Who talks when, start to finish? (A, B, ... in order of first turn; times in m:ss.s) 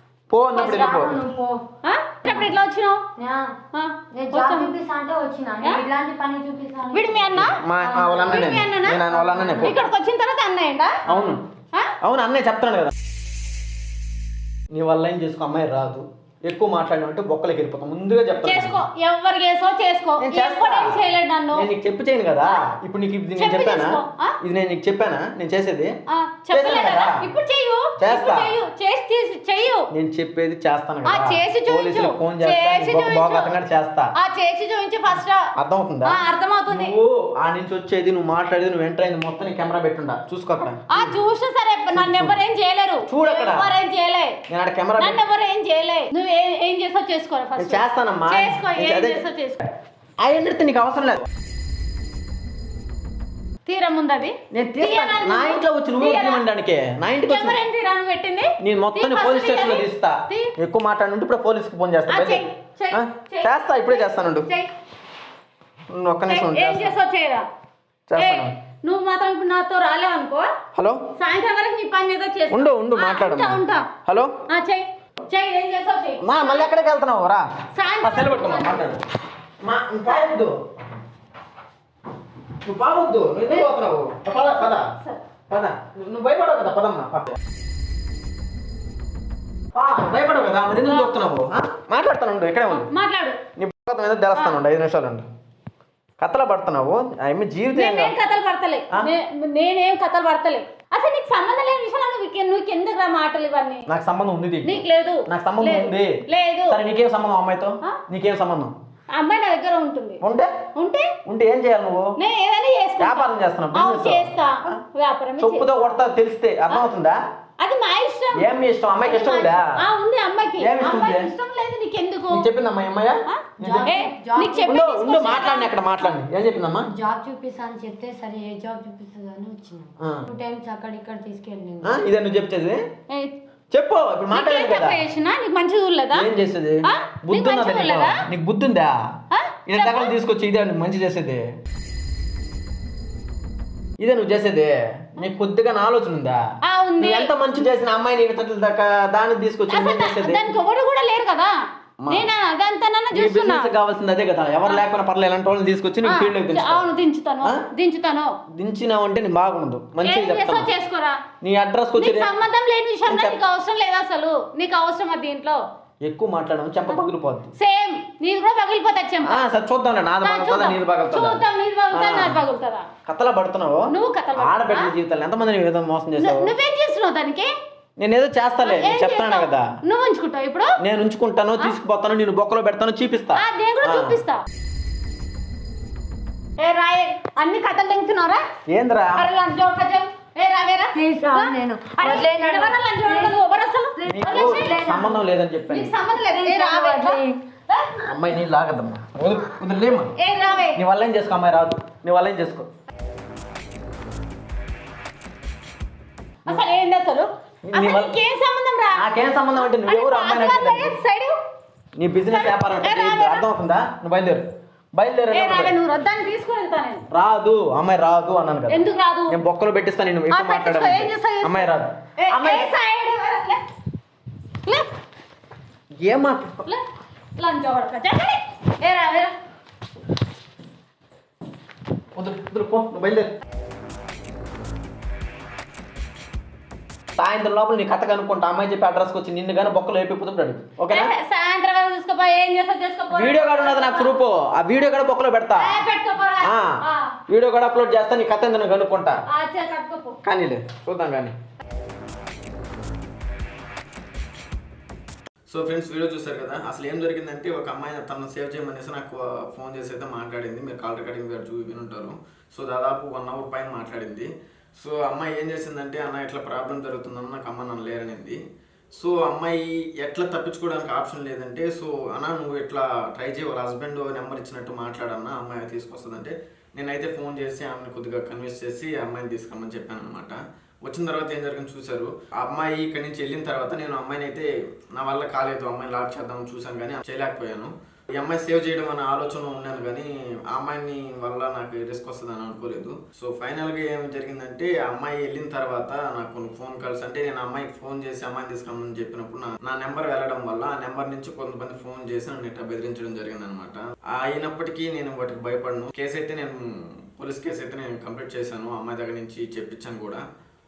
0:00.3-0:01.2 A
0:00.6-0:01.6 B
0:00.6-0:01.1 C
0:01.8-0:03.0 C
0:03.2-0:03.6 B
0:03.7-0:04.7 C
0:04.1-0:08.5 B
0:06.9-0:07.6 C
0:07.4-0:09.8 A
0:08.2-0:09.0 C
0:09.1-0:09.7 B
0:09.6-0:11.9 C
0:11.1-0:11.4 A
0:12.0-0:12.9 A
0:14.7-0:18.8 A
0:18.4-0:21.7 C
0:20.2-0:26.0 A
0:23.4-0:24.4 C
0:26.1-0:29.9 C
0:26.5-0:27.2 A
0:28.0-0:28.5 A
0:29.9-0:34.1 A
0:31.1-0:33.5 C
0:34.2-0:35.5 C
0:35.6-0:41.2 A
0:36.0-0:36.9 C
0:40.9-0:44.4 C
0:41.9-0:42.4 A
0:43.1-0:43.7 A
0:44.5-0:45.2 A
0:45.0-0:49.6 C
0:47.6-0:49.2 A
0:50.2-0:51.2 A
0:53.7-0:56.4 C
0:54.5-0:57.6 A
0:57.2-1:00.5 C
0:58.6-1:04.5 A
1:02.1-1:04.7 C
1:05.9-1:07.0 A
1:06.3-1:07.4 C
1:08.1-1:08.5 A
1:08.2-1:10.5 C
1:10.8-1:11.0 A
1:11.2-1:13.9 C
1:12.5-1:14.3 A
1:14.5-1:16.7 C
1:16.2-1:17.5 A
1:17.7-1:18.9 C
1:18.0-1:19.0 A
1:19.6-1:20.6 A
1:20.1-1:20.3 C
1:22.6-1:24.9 A
1:24.6-1:25.2 C
1:25.5-1:27.4 A
1:29.7-1:32.9 A
1:30.8-1:31.1 C
1:32.7-1:33.4 C
1:33.6-1:35.3 A
1:36.2-1:38.1 A
1:37.8-1:43.9 C
1:43.9-1:46.2 A
1:44.6-1:46.8 C
1:46.7-1:48.8 A
1:49.1-1:50.2 C
1:50.2-1:50.5 A
1:50.8-1:51.1 C
1:51.2-1:52.2 A
1:52.2-1:55.8 C
1:53.0-1:54.8 A
1:55.4-1:57.2 A
1:57.6-1:58.5 C
1:58.3-1:59.8 A
1:59.0-2:02.5 C
2:00.6-2:01.3 A
2:02.3-2:03.9 A
2:03.3-2:06.1 C
2:03.6-2:04.8 B
2:04.6-2:06.9 A
2:06.9-2:12.0 B
2:10.0-2:10.3 A
2:11.8-2:12.8 A
2:13.7-2:15.0 A
2:14.3-2:16.3 C
2:16.1-2:19.0 A
2:16.8-2:18.2 C
2:19.3-2:20.1 C
2:19.7-2:21.5 A
2:24.0-2:26.4 A
2:26.7-2:27.3 C
2:27.0-2:30.4 A
2:29.7-2:31.5 C
2:32.0-2:32.3 A
2:32.1-2:33.7 C
2:33.1-2:36.9 A
2:36.0-2:38.3 C
2:38.6-2:40.7 A
2:40.0-2:41.2 C
2:41.4-2:42.3 A
2:42.0-2:45.6 C
2:43.1-2:43.4 A
2:46.0-2:47.5 A
2:46.9-2:49.4 C
2:49.2-2:52.4 A
2:50.2-2:52.9 C
2:53.1-2:56.5 A
2:53.9-2:54.9 C
2:56.2-2:57.5 C
2:58.0-2:59.7 A
2:58.6-3:00.8 C
3:00.8-3:04.2 A
3:03.4-3:04.4 C
3:06.6-3:08.4 C
3:08.7-3:09.3 A
3:09.1-3:14.9 C
3:10.9-3:15.2 B
3:14.1-3:15.9 A
3:15.7-3:17.9 C
3:16.3-3:17.4 B
3:18.0-3:20.1 A
3:20.2-3:20.8 C
3:20.8-3:22.7 A
3:26.5-3:31.4 C
3:27.6-3:28.1 A
3:28.9-3:30.9 A
3:32.0-3:35.8 A
3:32.3-3:33.4 C
3:35.3-3:37.0 C
3:37.1-3:42.7 A
3:38.7-3:39.4 C
3:40.3-3:43.6 C
3:46.0-3:46.6 A
3:47.4-3:49.3 C
3:52.1-3:53.4 A
3:57.2-4:01.1 A
4:00.9-4:04.2 C
4:03.1-4:05.8 A
4:05.6-4:07.1 C
4:06.4-4:09.2 A
4:09.3-4:10.2 C
4:10.2-4:11.4 A
4:15.5-4:28.4 A
4:28.9-5:10.2 A